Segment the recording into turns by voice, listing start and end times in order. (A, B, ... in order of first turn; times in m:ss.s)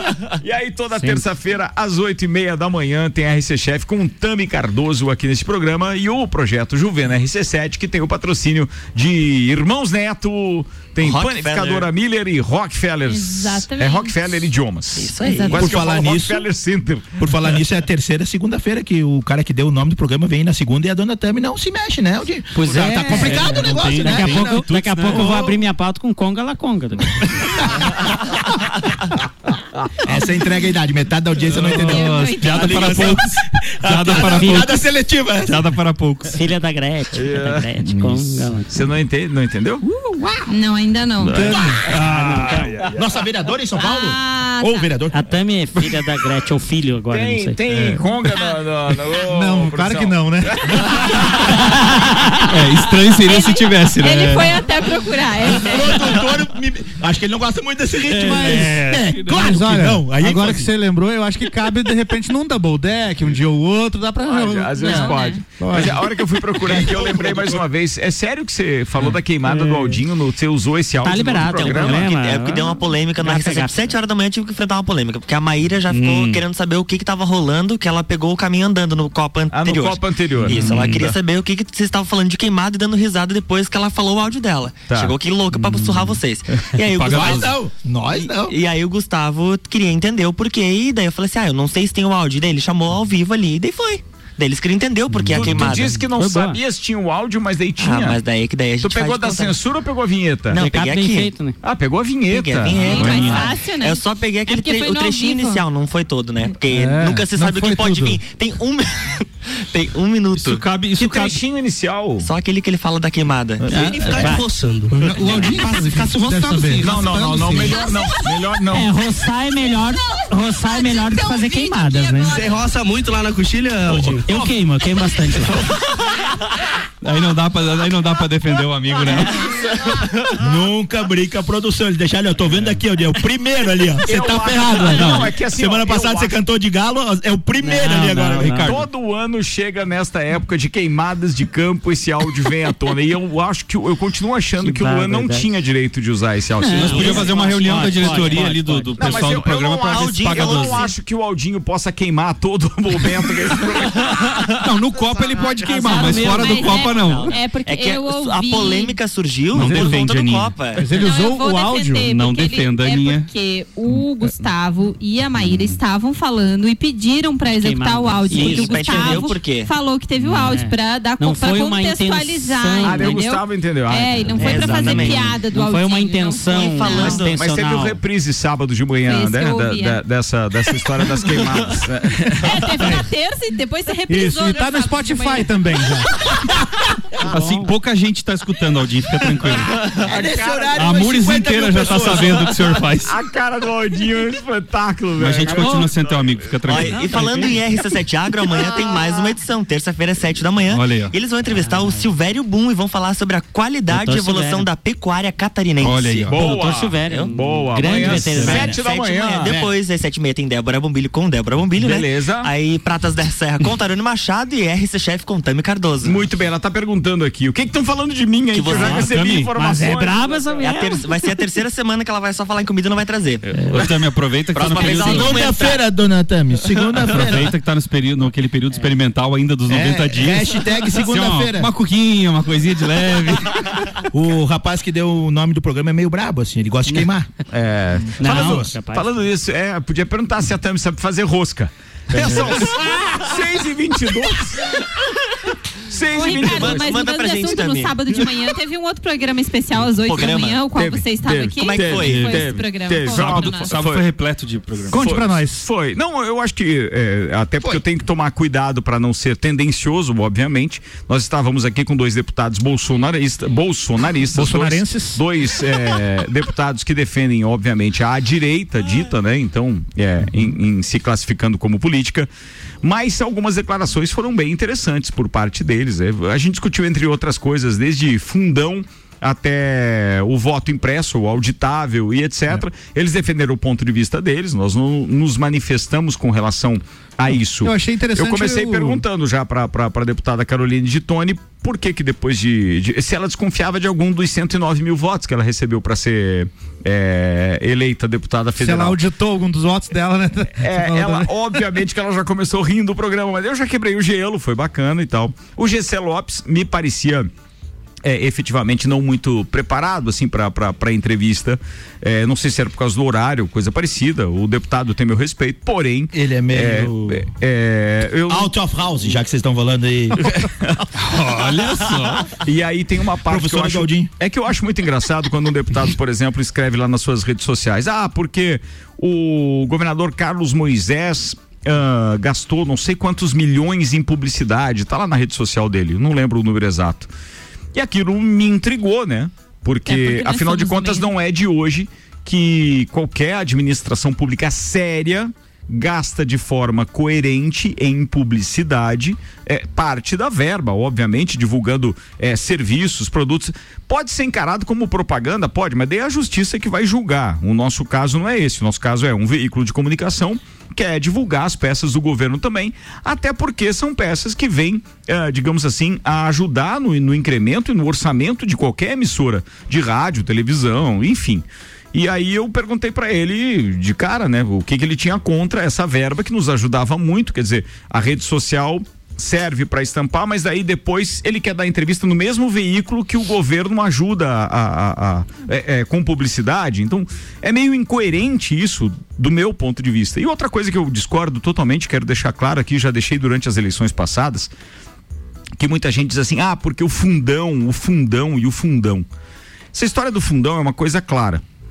0:00.4-0:17.3 A
0:01.0-0:01.2 B
0:11.0-0:11.9 C
0:13.1-0:14.3 D
0:15.0-0:15.7 C
0:15.2-0:15.5 D
0:15.5-0:16.5 E
0:17.2-0:25.5 E
0:22.6-0:25.5 F
0:22.6-0:27.6 B
0:30.0-0:35.7 E
0:31.5-0:34.8 F
0:31.7-0:33.1 D
0:34.2-0:34.7 B
0:35.4-0:36.4 F
0:36.3-0:38.9 B
0:37.2-0:37.7 A
0:38.7-0:39.8 A
0:40.5-0:41.6 D
0:41.3-0:42.7 G
0:42.0-0:42.4 B
0:42.5-0:43.0 A
0:42.9-0:45.2 E
0:43.8-0:44.9 D
0:45.1-0:47.6 B
0:47.1-0:51.5 A
0:47.7-0:48.0 G
0:49.1-0:51.4 G
0:52.4-0:54.6 F
0:53.2-0:56.1 D
0:55.4-1:00.7 E
0:58.1-0:59.5 F
0:58.2-1:07.3 G
1:04.3-1:12.1 A
1:04.8-1:05.4 D
1:09.0-1:10.0 B
1:11.0-1:13.9 B
1:11.6-1:27.6 C
1:15.9-1:16.4 F
1:19.5-1:21.1 A
1:20.5-1:21.0 F
1:24.9-1:25.2 A
1:25.6-1:26.2 F
1:26.7-1:27.6 F
1:27.1-1:28.6 E
1:28.1-1:36.0 C
1:35.2-1:35.8 F
1:35.3-1:38.2 A
1:36.1-1:36.6 B
1:37.8-1:39.6 C
1:38.8-1:40.6 A
1:40.5-1:41.3 C
1:40.6-1:41.6 B
1:41.6-1:43.3 A
1:42.3-1:50.7 C
1:42.8-1:43.5 F
1:42.8-1:45.6 D
1:46.7-1:48.2 G
1:50.3-1:51.4 F
1:51.0-1:52.3 A
1:52.2-1:54.4 C
1:53.6-1:57.0 H
1:53.8-1:54.5 B
1:54.9-1:57.8 G
1:56.8-1:58.9 A
1:57.6-1:58.1 D
1:58.7-2:02.5 B
2:00.7-2:02.4 D
2:02.2-2:04.5 H
2:03.9-2:04.2 A
2:04.2-2:05.6 B
2:07.0-2:09.4 F
2:10.4-2:18.7 E
2:14.1-2:16.3 A
2:14.9-2:15.3 F
2:17.6-2:18.7 B
2:18.4-2:18.8 F
2:18.6-2:27.3 A
2:24.6-2:25.5 B
2:26.6-2:29.3 B
2:26.7-2:30.9 F
2:26.9-2:27.2 C
2:29.0-2:34.5 A
2:29.9-2:30.9 C
2:34.5-2:37.4 F
2:35.7-2:39.0 D
2:35.8-2:36.8 B
2:35.9-2:40.9 C
2:39.5-2:40.6 F
2:39.6-2:40.0 G
2:40.8-2:42.1 G
2:41.0-2:57.2 D
2:42.0-2:43.3 F
2:47.5-2:49.4 B
2:48.3-2:49.7 C
2:50.2-2:53.2 B
2:52.8-2:55.0 A
2:54.3-2:58.0 B
2:54.4-2:55.4 C
2:56.5-2:57.4 C
2:56.9-3:02.7 A
2:59.1-3:00.0 D
3:02.4-3:05.9 D
3:02.8-3:03.1 G
3:04.1-3:06.2 G
3:07.3-3:09.9 F
3:07.3-3:07.7 B
3:09.9-3:12.6 E
3:10.0-3:10.7 A
3:10.8-3:13.2 F
3:13.0-3:16.9 A
3:15.2-3:17.5 F
3:15.6-3:15.9 B
3:16.6-3:26.4 C
3:16.8-3:17.6 B
3:20.7-3:21.1 F
3:21.5-3:22.0 B
3:23.9-3:24.7 B
3:25.8-3:26.5 F
3:26.3-3:29.6 A
3:26.4-3:28.8 B
3:27.9-3:36.3 C
3:28.0-3:28.6 F
3:31.8-3:32.5 A
3:36.0-3:40.6 A
3:38.5-3:39.2 C
3:38.7-3:41.1 B
3:38.8-3:39.5 F
3:40.6-3:43.9 C
3:43.6-3:45.5 F
3:44.5-3:45.8 C
3:44.7-3:47.5 E
3:46.9-3:53.9 F
3:48.7-3:49.0 B
3:49.7-3:51.7 E
3:54.1-3:57.3 E
3:57.5-4:04.9 A
3:58.2-3:59.1 B
3:58.2-3:58.7 E
4:05.9-4:06.9 A
4:06.1-4:13.8 D
4:06.2-4:08.0 C
4:10.0-4:10.7 C
4:10.8-4:14.1 A
4:11.6-4:12.5 C
4:12.0-4:12.5 F
4:13.0-4:15.1 F
4:14.9-4:15.7 G
4:14.9-4:32.3 A
4:24.3-4:25.2 G
4:32.8-4:59.0 A
4:47.6-4:49.0 G
4:58.6-5:01.6 G
5:00.6-5:07.3 A
5:08.0-5:18.5 A
5:16.1-5:17.2 E
5:18.3-5:20.2 E
5:20.4-5:20.8 A
5:21.0-5:22.3 F
5:22.4-5:37.1 A
5:23.3-5:24.1 E
5:37.7-6:34.5 A
5:39.9-5:41.1 D
6:35.6-6:39.1 A
6:39.7-6:41.4 A